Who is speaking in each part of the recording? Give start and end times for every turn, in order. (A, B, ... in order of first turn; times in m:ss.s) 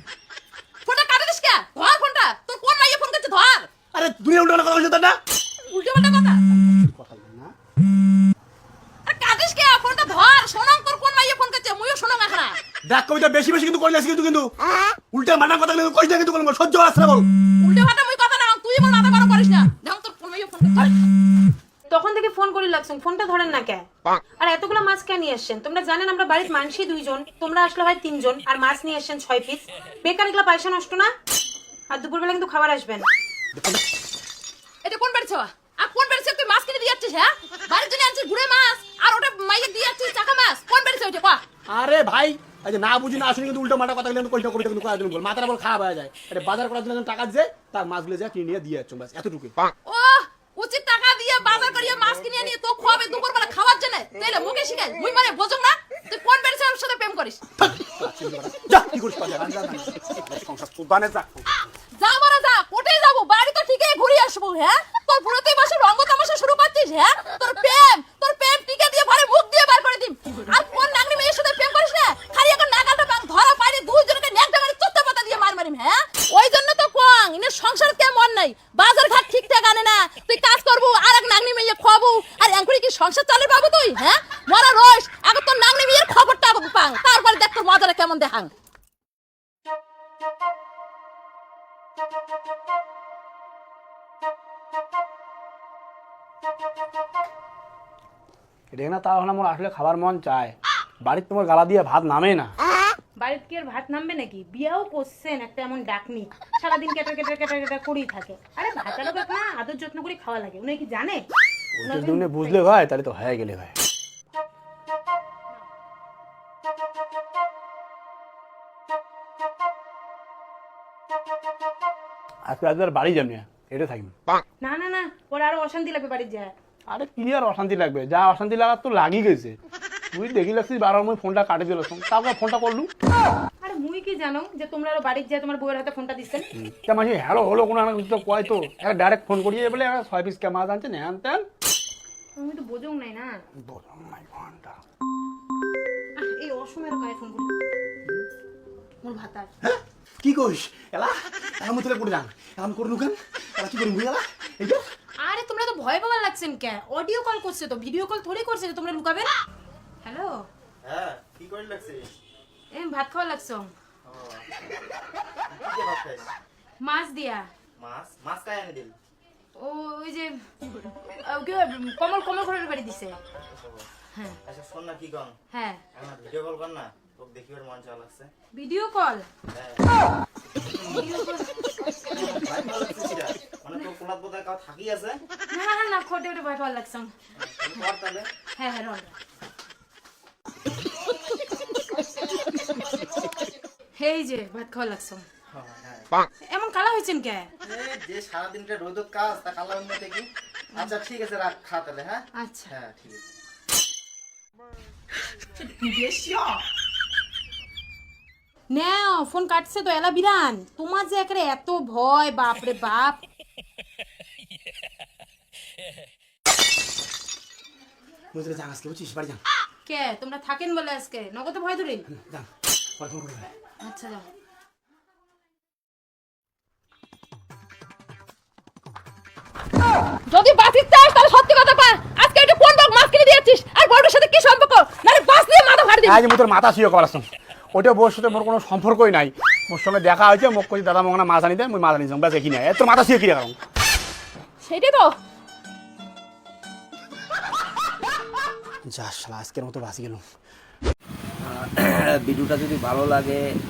0:00.8-0:03.7 A
0:03.9-0:05.2 B
0:05.6-0:06.4 A
0:06.5-0:07.5 B
0:09.0-0:12.6 A
0:12.8-0:14.5 B
0:15.1-0:17.3 B
0:17.6-0:20.9 A
0:21.9-0:23.8 C
0:24.4-0:31.1 C
0:31.9-0:33.1 C
0:33.5-0:33.8 B
0:34.8-0:41.4 A
0:41.7-0:49.6 B
0:49.8-0:57.4 A
0:57.6-1:01.6 B
1:01.9-1:28.5 A
1:38.7-1:42.5 B
1:43.2-1:51.3 C
1:51.7-1:53.7 B
1:51.8-1:52.6 C
2:02.4-2:04.1 B
2:04.6-2:06.5 C
2:06.9-2:09.6 B
2:10.1-2:12.9 B
2:13.6-2:16.5 C
2:16.5-2:21.4 B
2:22.4-2:23.3 C
2:23.6-2:24.8 B
2:26.2-2:27.5 C
2:29.0-2:29.5 C
2:29.6-2:34.8 B
2:35.2-2:39.3 C
2:40.0-2:40.4 C
2:40.8-2:42.2 D
2:42.7-2:43.7 C
2:44.0-2:44.5 D
2:45.5-2:46.3 D
2:46.8-2:47.5 C
2:47.8-2:49.0 D
2:49.6-2:50.4 C
2:51.1-2:53.2 C
2:53.5-2:53.9 D
2:54.1-2:54.4 C
2:54.4-2:55.4 D
2:55.5-2:55.8 C
2:55.9-2:58.3 D
2:58.5-2:59.2 C
2:59.5-2:59.9 D
3:00.8-3:01.1 D
3:00.8-3:01.5 C
3:02.1-3:05.2 D
3:05.5-3:07.1 C
3:07.4-3:08.3 D
3:08.6-3:09.1 C
3:14.0-3:15.2 C
3:15.5-3:16.1 D
3:16.5-3:17.5 C
3:17.6-3:23.2 D
3:22.4-3:22.7 C
3:25.6-3:26.4 A
3:28.7-3:33.2 C
3:38.3-3:39.4 B
3:39.8-3:42.1 C
3:42.1-3:42.5 B
3:43.0-3:43.5 B
3:43.8-3:44.2 C
3:50.3-3:56.2 A
3:56.0-4:03.5 B
4:04.6-4:05.2 A
4:08.8-4:10.2 B
4:11.4-4:13.4 E